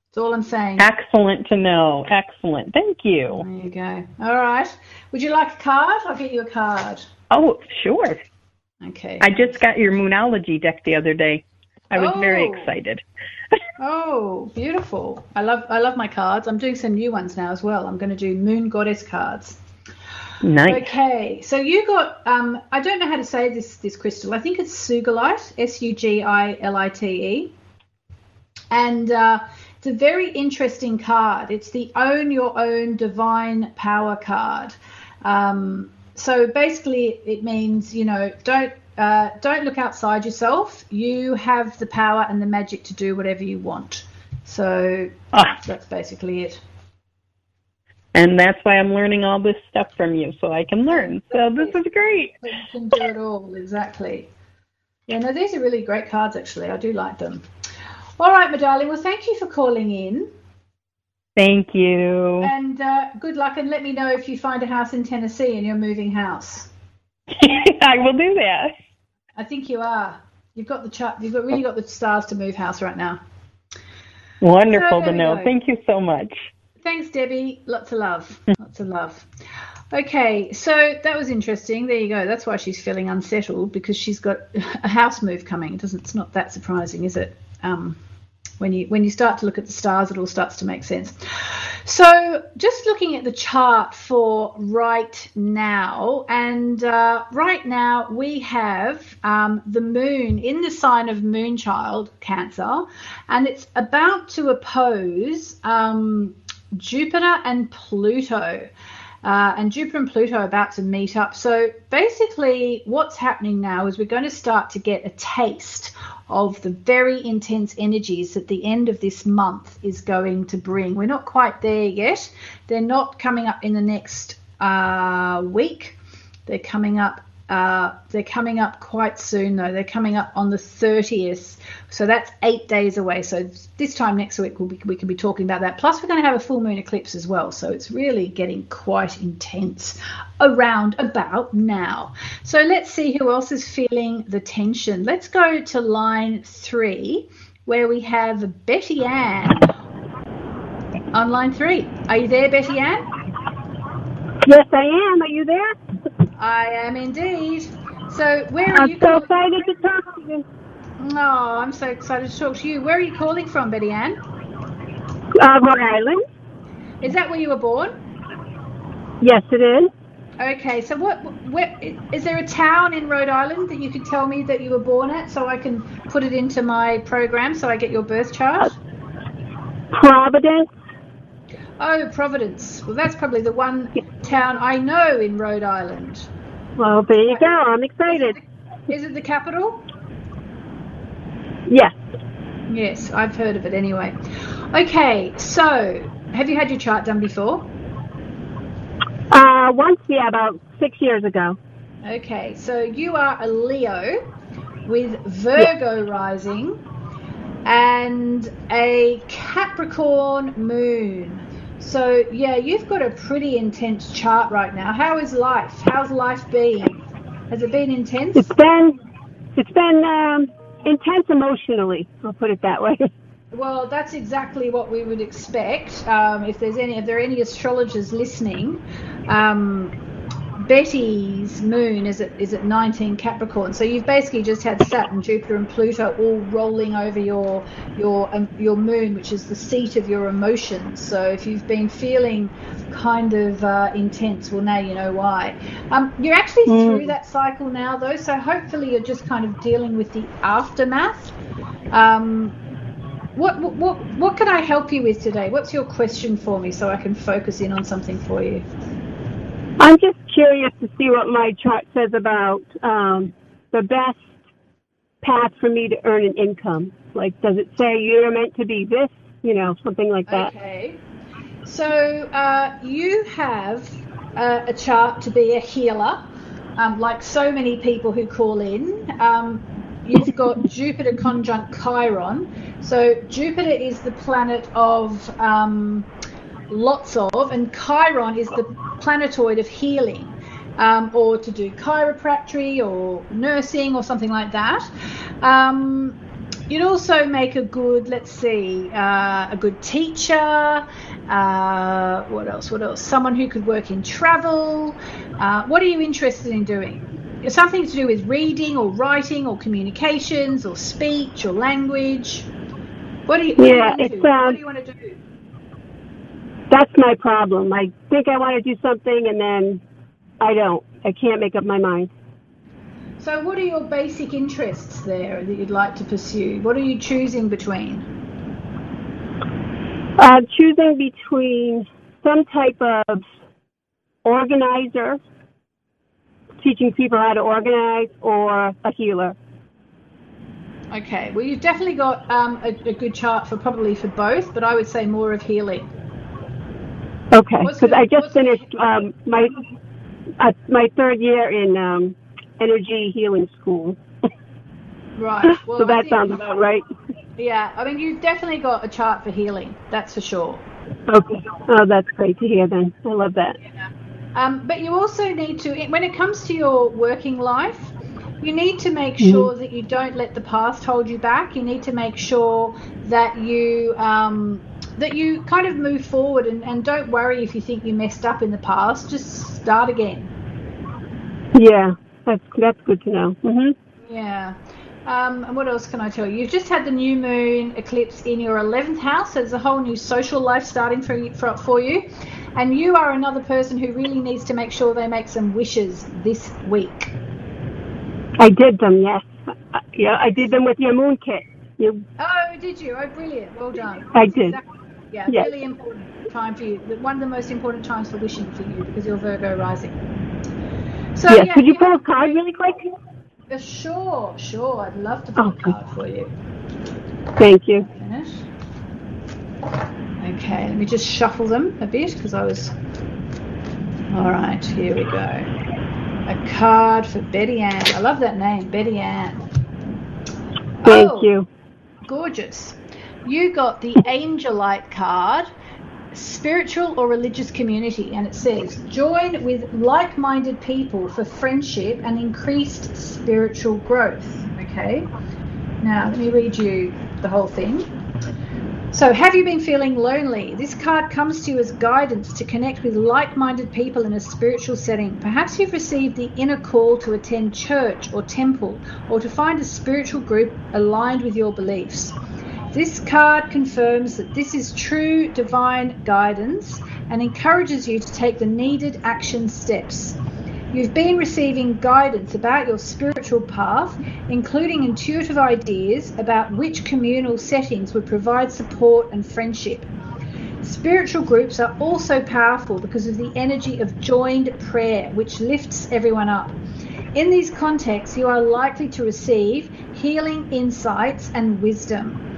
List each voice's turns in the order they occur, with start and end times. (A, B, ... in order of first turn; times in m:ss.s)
0:00.1-0:00.9 A
0:00.8-0:03.4 B
0:03.4-0:07.0 A
0:07.3-0:08.2 B
0:08.8-0:09.6 A
0:09.2-0:13.0 B
0:12.0-0:12.7 A
0:13.8-0:19.6 A
0:20.4-0:20.9 B
0:20.7-0:27.5 A
0:28.7-0:46.6 A
0:48.1-0:52.4 B
0:50.9-0:51.8 A
0:52.4-0:54.3 A
0:55.1-0:57.4 A
0:58.2-1:00.3 A
1:01.4-1:02.5 B
1:02.4-1:06.7 A
1:07.3-1:08.7 B
1:09.4-1:13.2 A
1:14.4-1:16.5 B
1:14.7-1:15.5 A
1:16.8-1:19.3 A
1:19.9-1:28.0 A
1:28.6-1:48.7 A
1:49.2-2:29.7 A
2:31.1-2:33.0 A
2:34.4-2:35.8 C
2:36.4-2:39.3 A
2:38.7-2:40.4 C
2:41.0-2:44.2 A
2:45.4-2:46.2 C
2:47.0-2:47.9 A
2:49.2-2:49.9 C
2:50.4-2:58.8 A
2:59.9-3:00.7 C
3:01.8-3:06.3 A
3:06.8-3:08.4 C
3:07.3-3:07.5 A
3:08.1-3:09.8 A
3:11.7-3:12.0 C
3:12.7-3:17.7 A
3:19.3-3:21.6 C
3:22.0-3:24.2 A
3:24.9-3:26.8 A
3:27.6-3:37.0 A
3:37.5-3:38.5 A
3:38.4-3:39.0 C
3:39.6-3:43.1 C
3:43.5-3:50.0 A
3:50.6-4:11.4 A
4:06.7-4:07.1 B
4:11.9-4:12.6 A
4:13.4-4:18.6 A
4:19.8-4:24.2 C
4:25.2-4:30.5 C
4:30.3-4:31.0 A
4:31.6-4:36.3 A
4:36.8-4:46.1 A
4:46.7-4:54.9 A
4:55.4-4:56.2 A
4:56.7-5:12.5 A
5:13.3-5:15.2 A
5:13.6-5:14.6 C
5:16.7-5:19.8 C
5:20.4-5:22.1 C
5:23.2-5:28.1 A
5:30.2-5:33.2 C
5:34.2-5:35.2 C
5:36.6-5:39.4 C
5:40.9-5:45.9 A
5:47.3-5:49.6 C
5:47.6-5:48.7 A
5:50.4-5:54.0 C
5:55.2-5:56.4 A
5:55.6-5:56.9 C
5:57.4-6:00.6 A
6:01.1-6:03.6 C
6:04.4-6:20.3 A
6:09.2-6:09.5 C
6:21.6-6:23.7 C
6:24.1-6:37.1 A
6:38.4-6:42.0 C
6:42.2-6:50.0 A
6:44.1-6:44.6 C
6:51.2-6:52.4 A
6:51.3-6:52.9 C
6:53.5-6:56.3 A
6:55.4-6:55.8 C
6:57.4-6:57.9 C
6:57.9-6:58.4 A
7:00.2-7:02.7 A
7:04.1-7:05.5 A
7:06.3-7:09.4 A
7:10.8-7:11.3 A
7:10.8-7:11.5 C
7:12.0-7:15.5 A
7:16.1-7:25.1 A
7:25.8-7:27.9 A
7:28.9-7:42.2 A
7:42.7-7:50.2 A
7:50.7-7:59.9 A
8:00.6-8:06.6 A
8:07.2-8:12.2 A